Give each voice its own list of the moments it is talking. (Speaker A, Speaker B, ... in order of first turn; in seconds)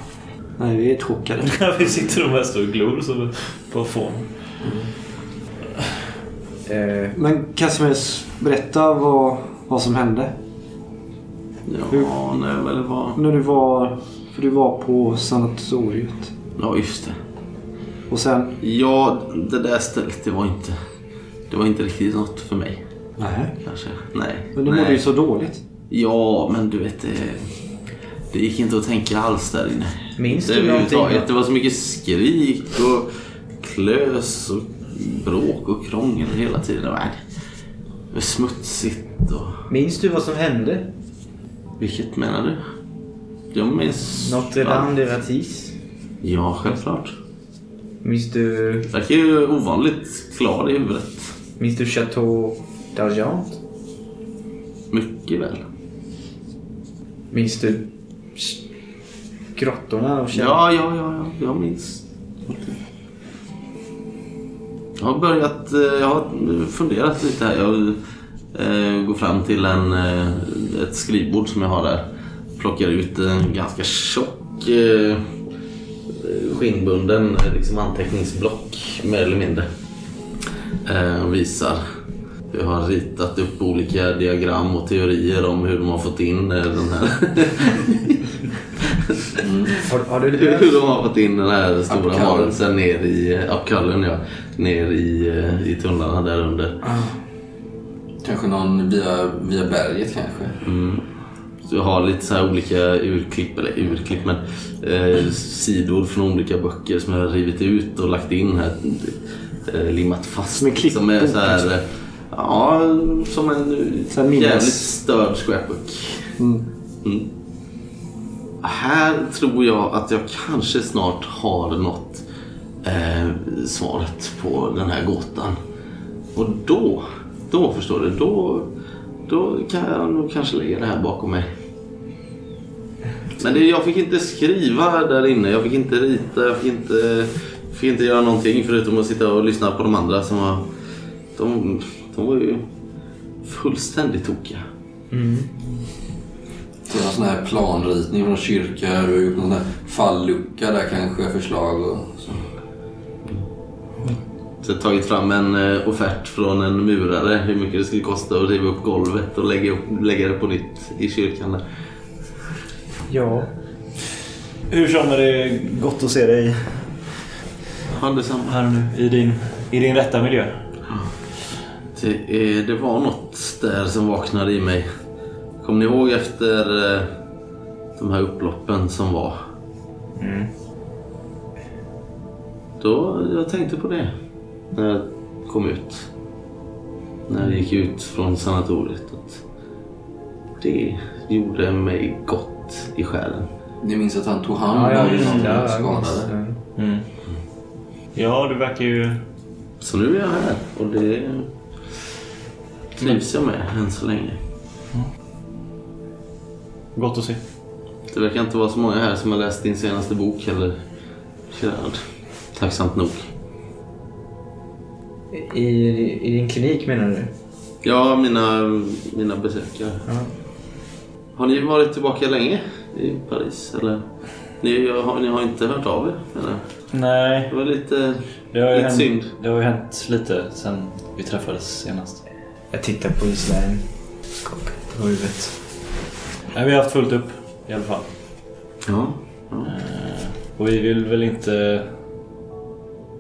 Speaker A: 0.6-1.6, 7.1-10.3, 13.2-16.3, 18.1-18.6, 23.2-23.6, 24.6-25.6, 110.6-111.7, 114.1-114.9, 116.4-116.7
Speaker B: 1.4-4.3, 164.7-167.0, 168.4-170.6, 180.2-180.5, 195.0-195.5, 196.8-197.1, 198.2-199.2, 206.9-207.4, 226.9-227.5, 228.5-232.2, 236.5-238.1, 239.7-241.9
Speaker C: 6.7-7.2, 30.2-31.3, 39.7-40.9, 44.2-45.8, 48.0-48.9, 51.6-53.6, 57.3-58.6, 59.5-60.6, 89.8-90.8, 96.9-97.1, 145.1-145.6, 163.1-163.5, 194.7-196.6, 215.3-217.3, 232.7-233.9, 234.4-235.5
Speaker D: 11.7-13.2, 16.6-17.2, 18.6-20.8, 21.5-22.8, 23.6-25.1, 25.9-27.5, 28.3-37.2, 38.1-39.6, 41.8-42.6, 43.5-44.9, 46.2-47.2, 48.9-51.4, 54.9-55.6, 60.3-62.0, 65.0-68.0, 68.5-72.0, 72.6-75.3, 76.1-79.7, 80.8-81.8, 82.5-88.3, 88.8-89.4, 90.3-96.8, 100.6-101.0, 101.7-116.3, 118.6-122.2, 122.8-125.6, 126.3-128.7, 129.3-131.5, 133.4-140.7, 141.3-142.7, 143.4-144.6, 154.6-161.6, 167.9-168.6, 171.9-174.9, 175.6-177.1, 178.0-179.4, 182.8-184.2, 184.7-186.1, 187.3-189.4, 190.6-193.5, 199.8-201.5, 203.0-204.4, 208.1-210.8, 211.5-213.3, 217.8-220.1, 221.3-224.1, 224.6-226.8, 227.5-229.3, 238.9-239.7
Speaker E: 89.4-89.8, 91.9-92.6, 98.2-100.6, 146.9-152.4, 193.8-196.3